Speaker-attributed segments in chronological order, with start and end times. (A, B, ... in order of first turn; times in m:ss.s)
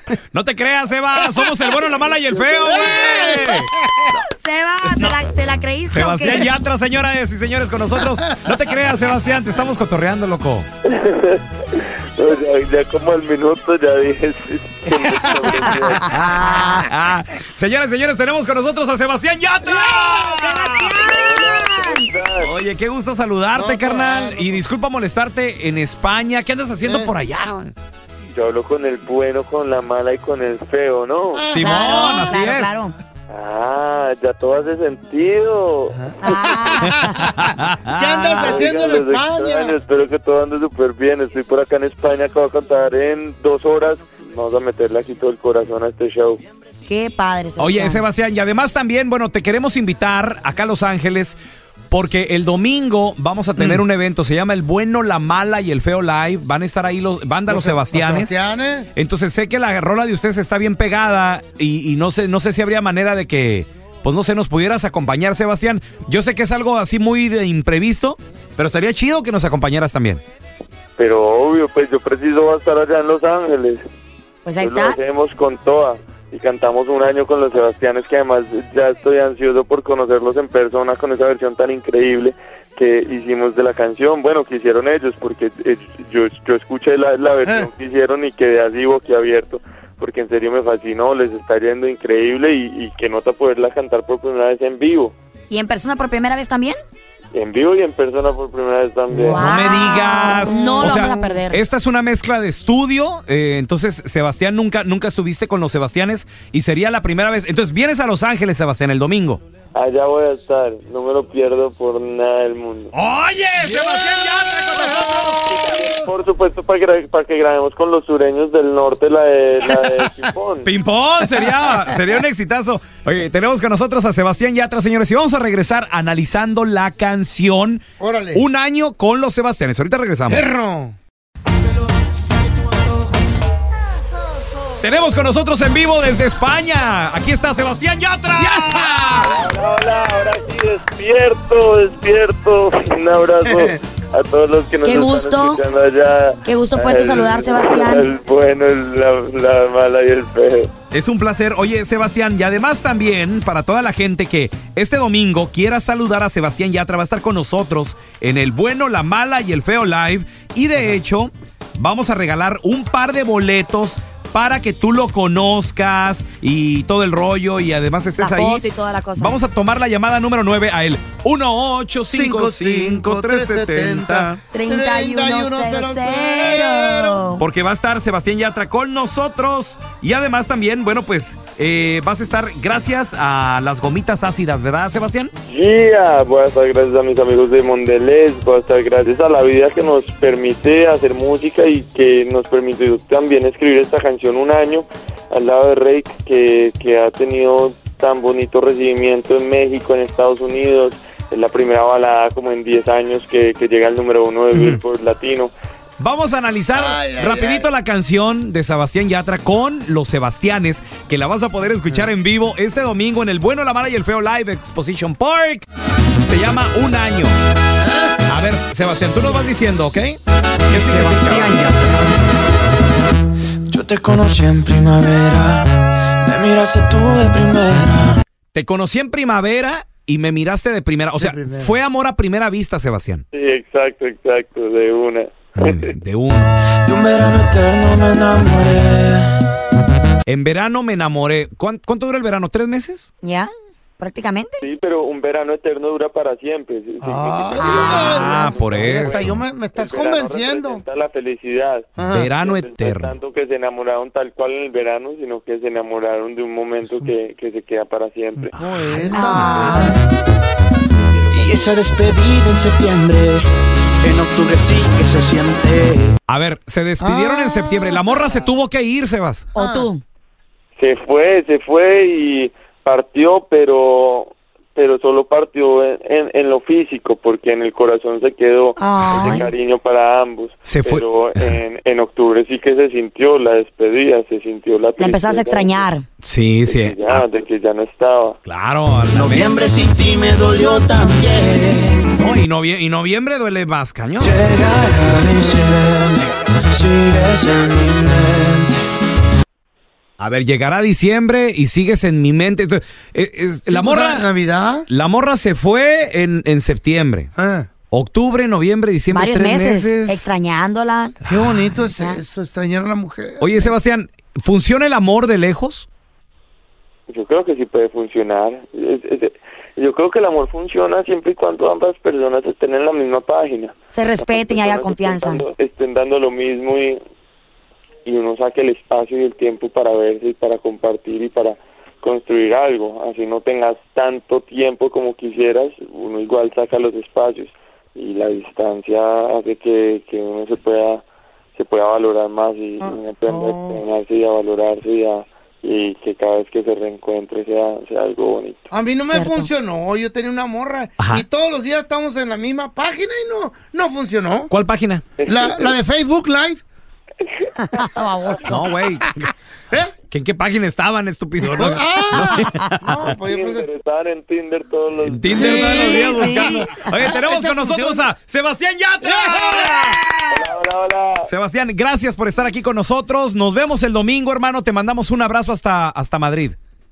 0:00.3-0:03.7 A
0:02.0-0:03.3 B
0:02.7-0:04.1 C
0:04.1-0:06.5 D
0:05.0-0:05.2 C
0:05.9-0:10.7 A
0:10.8-0:16.1 B
0:15.2-0:21.0 A
0:15.8-0:16.8 D
0:19.7-0:22.1 D
0:21.0-0:22.5 B
0:22.4-0:27.7 A
0:23.5-0:24.6 C
0:26.8-0:27.1 C
0:28.3-0:31.4 B
0:31.3-0:32.4 C
0:31.5-0:32.7 A
0:31.6-0:33.0 D
0:33.3-0:36.7 B
0:35.9-0:39.8 C
0:36.2-0:37.2 D
0:37.4-0:38.5 A
0:38.3-0:46.4 B
0:46.8-0:48.0 D
0:47.6-0:51.4 A
0:51.9-0:58.4 A
0:53.6-0:53.8 C
0:57.5-0:58.9 C
0:59.0-1:10.2 A
1:11.0-1:13.8 B
1:14.4-1:15.0 D
1:14.6-1:35.1 B
1:27.4-1:27.7 C
1:35.5-1:36.8 D
1:37.3-1:39.9 B
1:39.1-1:41.6 D
1:39.3-1:49.4 A
1:40.6-1:41.4 C
1:49.7-1:52.9 B
1:52.9-1:55.5 A
1:53.6-1:56.1 C
1:55.4-2:00.7 B
2:00.6-2:07.8 A
2:01.4-2:01.9 C
2:08.0-2:08.4 C
2:08.3-2:10.5 A
2:10.3-2:11.0 C
2:14.8-2:19.3 A
2:18.4-2:19.4 C
2:19.2-2:30.7 B
2:23.4-2:23.8 C
2:24.8-2:25.6 D
2:26.4-2:28.1 D
2:30.9-2:48.6 A
2:48.2-2:49.4 D
2:49.2-2:54.4 A
2:52.1-2:57.2 C
2:54.5-2:57.4 D
2:57.4-3:05.3 A
3:05.4-3:25.5 B
3:26.0-3:35.7 A
3:26.7-3:27.7 C
3:36.2-3:37.4 A
3:37.8-3:38.2 C
3:38.3-3:41.7 A
3:40.7-3:42.1 E
3:43.7-3:48.2 E
3:48.5-3:53.2 A
3:51.2-3:51.8 C
3:53.3-3:55.9 B
3:55.6-3:56.5 A
3:56.8-3:59.4 E
4:00.2-4:03.1 A
4:03.2-4:04.6 D
4:04.6-4:11.8 B
4:07.0-4:10.8 C
4:07.6-4:08.4 D
4:07.8-4:09.4 A
4:12.0-4:12.3 C
4:12.1-4:13.1 A
4:12.4-4:18.5 B
4:18.5-4:19.9 C
4:19.1-4:19.9 D
4:19.1-4:19.5 A
4:20.9-4:21.7 B
4:21.3-4:23.4 E
4:24.0-4:26.1 E
4:26.3-4:29.5 A
4:27.0-4:28.5 C
4:29.5-4:30.0 D
4:29.6-4:29.9 C
4:30.8-4:45.9 B
4:38.8-4:39.5 D
4:39.1-4:39.4 A
4:40.6-4:41.6 A
4:45.0-4:46.0 D
4:46.2-4:47.2 A
4:46.6-4:48.4 B
4:48.4-4:49.7 A
4:49.1-4:52.1 E
4:52.2-4:54.4 A
4:54.2-4:58.8 E
5:00.2-5:04.3 A
5:03.7-5:04.9 C
5:04.9-5:07.3 A
5:07.4-5:07.7 C
5:07.9-5:10.2 A
5:09.1-5:11.2 D
5:11.3-5:13.7 C
5:11.9-5:12.2 D
5:13.4-5:15.9 A
5:17.1-5:27.0 B
5:23.9-5:25.4 D
5:28.0-5:41.0 B
5:41.5-5:48.7 B
5:42.8-5:43.8 C
5:48.7-5:54.5 C
5:49.1-5:49.5 D
5:51.0-5:51.2 A
5:54.5-5:55.0 A
5:55.2-5:55.7 B
5:55.2-5:56.6 C
5:57.6-5:58.7 D
5:58.4-5:59.9 C
5:58.4-5:59.3 A
6:00.1-6:03.1 A
6:01.4-6:03.6 C
6:03.0-6:06.0 B
6:05.0-6:10.1 A
6:05.3-6:08.1 C
6:05.7-6:06.9 D
6:09.0-6:10.0 C
6:10.3-6:11.3 B
6:11.2-6:16.6 A